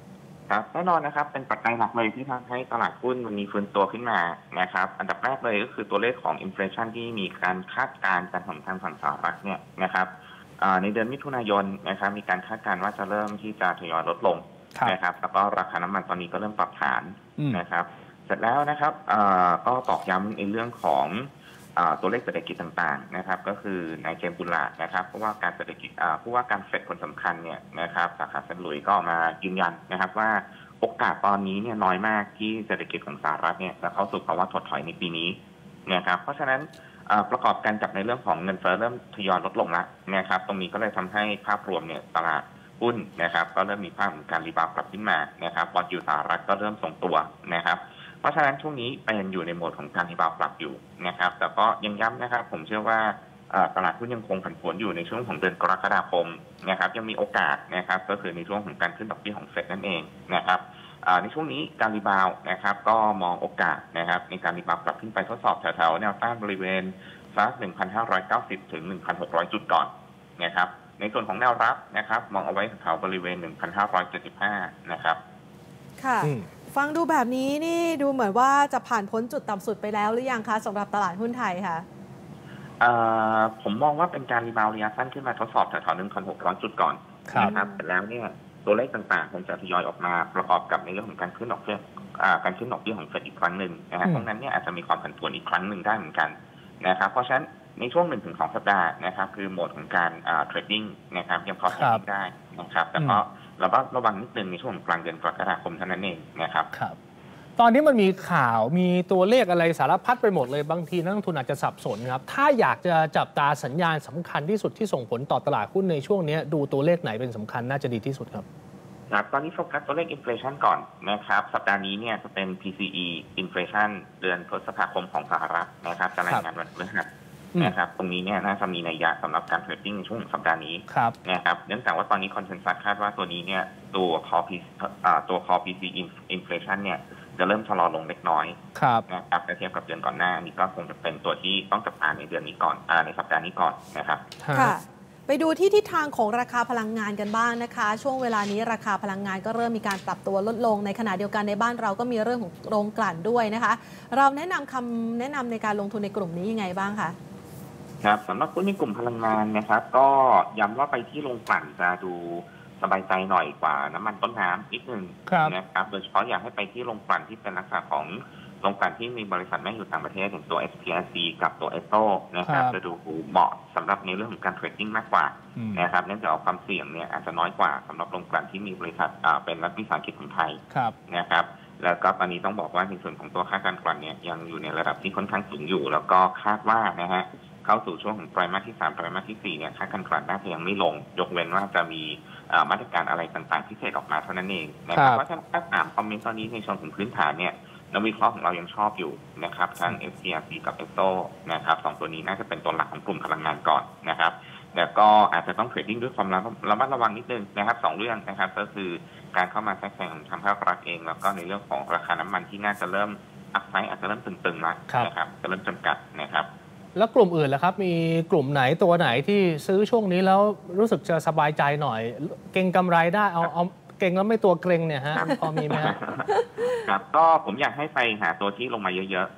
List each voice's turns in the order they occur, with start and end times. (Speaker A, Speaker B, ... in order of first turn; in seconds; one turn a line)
Speaker A: 0.5-75.2
Speaker B: 76.0-81.9
Speaker A: 82.8-106.7
Speaker B: 87.4-87.8
Speaker C: 107.6-118.4
Speaker A: 119.1-138.6
Speaker C: 138.8-139.0
Speaker A: 139.1-144.2
Speaker C: 144.4-144.7
Speaker B: 144.5-157.2
Speaker A: 158.0-216.5
Speaker C: 165.3-165.6
Speaker C: 172.5-172.8
Speaker C: 175.6-175.8
Speaker C: 217.0-225.9
Speaker A: 225.1-229.3
Speaker B: 225.2-226.8